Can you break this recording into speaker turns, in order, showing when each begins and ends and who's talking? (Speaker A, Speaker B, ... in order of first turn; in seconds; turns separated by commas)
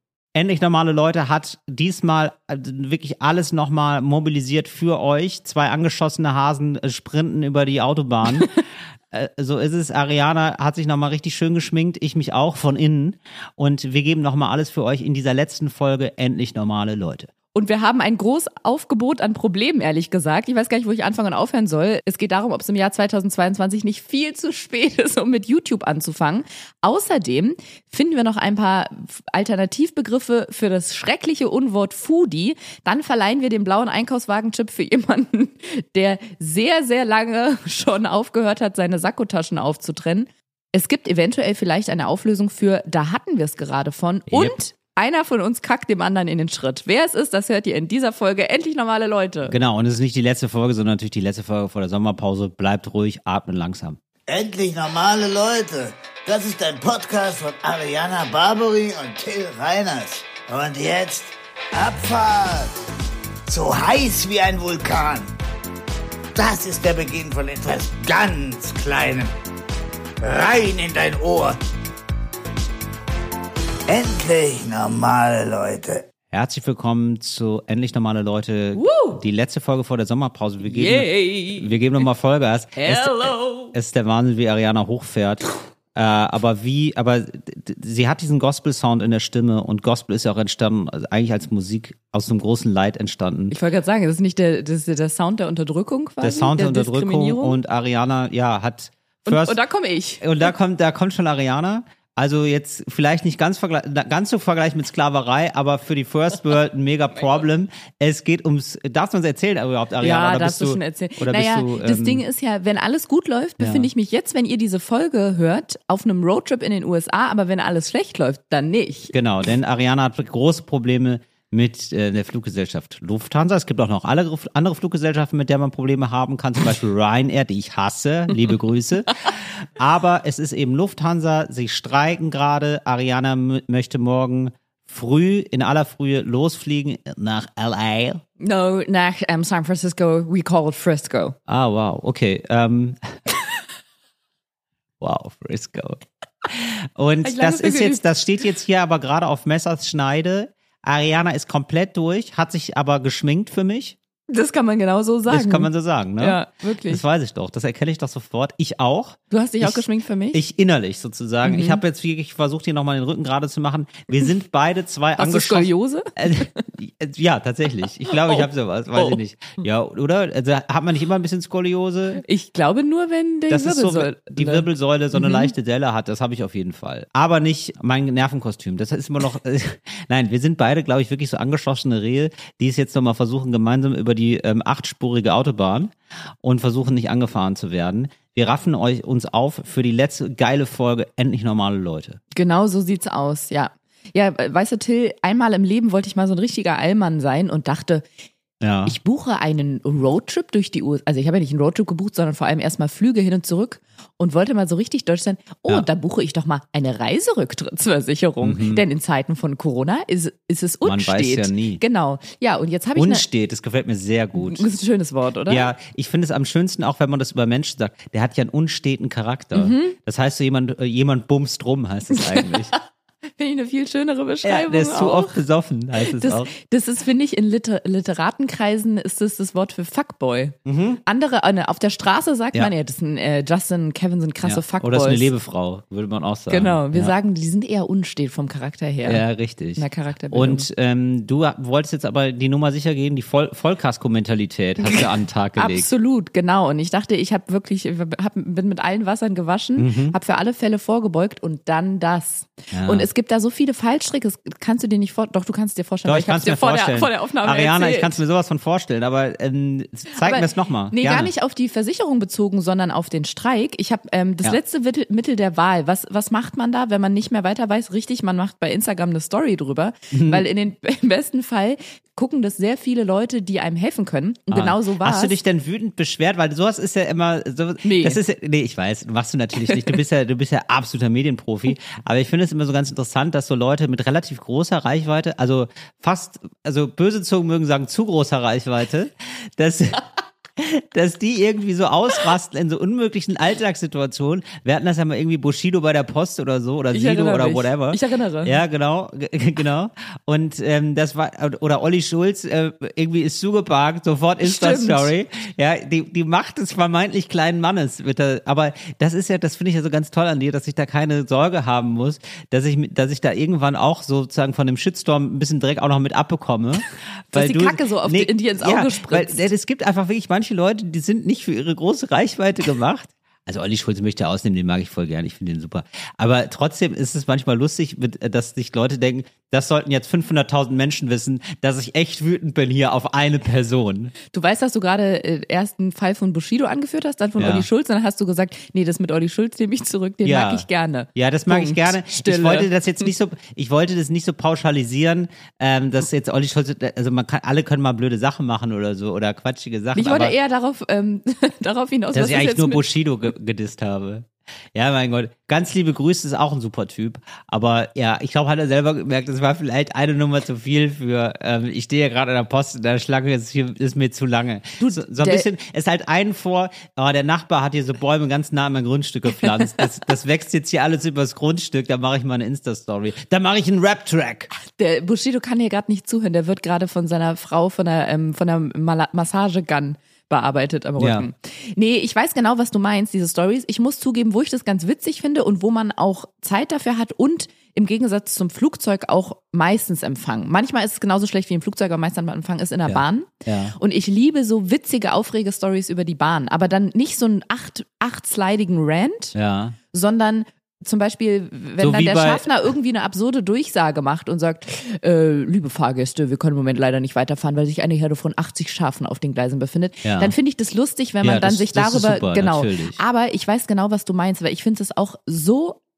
Speaker A: 0.3-8.5, Speaker A: 9.1-17.3, Speaker B: 17.5-49.5, Speaker A: 44.3-44.5, Speaker A: 49.5-54.0, Speaker C: 54.3-62.8, Speaker C: 63.5-65.3, Speaker C: 66.3-69.3, Speaker C: 70.2-71.6, Speaker C: 73.9-76.0, Speaker A: 76.3-93.5, Speaker B: 78.7-79.2, Speaker B: 80.6-81.7, Speaker B: 82.8-83.7, Speaker B: 93.5-97.6, Speaker A: 96.2-99.6, Speaker B: 99.2-100.5, Speaker A: 100.2-112.2, Speaker B: 110.0-119.1, Speaker A: 113.6-113.9, Speaker A: 119.1-138.2, Speaker B: 138.4-141.3, Speaker A: 141.5-143.2, Speaker A: 145.0-154.0, Speaker B: 147.2-148.0, Speaker B: 154.3-157.0, Speaker A: 155.3-172.2, Speaker B: 159.3-160.4, Speaker B: 161.4-161.8, Speaker B: 165.2-166.6, Speaker B: 168.1-169.2, Speaker B: 172.2-175.5, Speaker A: 173.5-192.2, Speaker B: 192.3-198.1, Speaker A: 198.6-198.9, Speaker B: 198.8-213.2, Speaker A: 208.4-208.8, Speaker A: 210.8-211.8, Speaker A: 212.9-214.7, Speaker B: 214.4-215.7, Speaker A: 215.5-222.7, Speaker B: 219.5-219.9, Speaker B: 222.2-222.8, Speaker B: 223.4-225.4, Speaker A: 224.4-226.5, Speaker B: 226.0-235.3, Speaker A: 230.7-231.0, Speaker A: 234.4-237.1, Speaker B: 236.5-239.2, Speaker A: 239.0-245.9, Speaker B: 239.7-240.7, Speaker B: 244.8-258.2, Speaker A: 249.8-250.2, Speaker A: 252.7-253.1, Speaker A: 256.0-261.3, Speaker B: 260.1-275.4, Speaker A: 270.1-270.4, Speaker A: 274.5-334.1, Speaker B: 277.8-278.2, Speaker B: 296.9-298.6, Speaker B: 304.4-305.1, Speaker B: 317.3-319.5, Speaker B: 334.3-342.7, Speaker A: 337.4-337.7, Speaker A: 340.2-350.3, Speaker B: 349.9-352.9, Speaker A: 352.1-374.5, Speaker B: 364.8-365.5, Speaker B: 369.4-369.8, Speaker B: 374.6-399.3, Speaker A: 381.0-381.2, Speaker A: 392.9-393.8, Speaker A: 399.3-399.8, Speaker B: 399.9-415.8, Speaker A: 401.8-402.4, Speaker A: 410.0-410.3, Speaker A: 411.2-413.0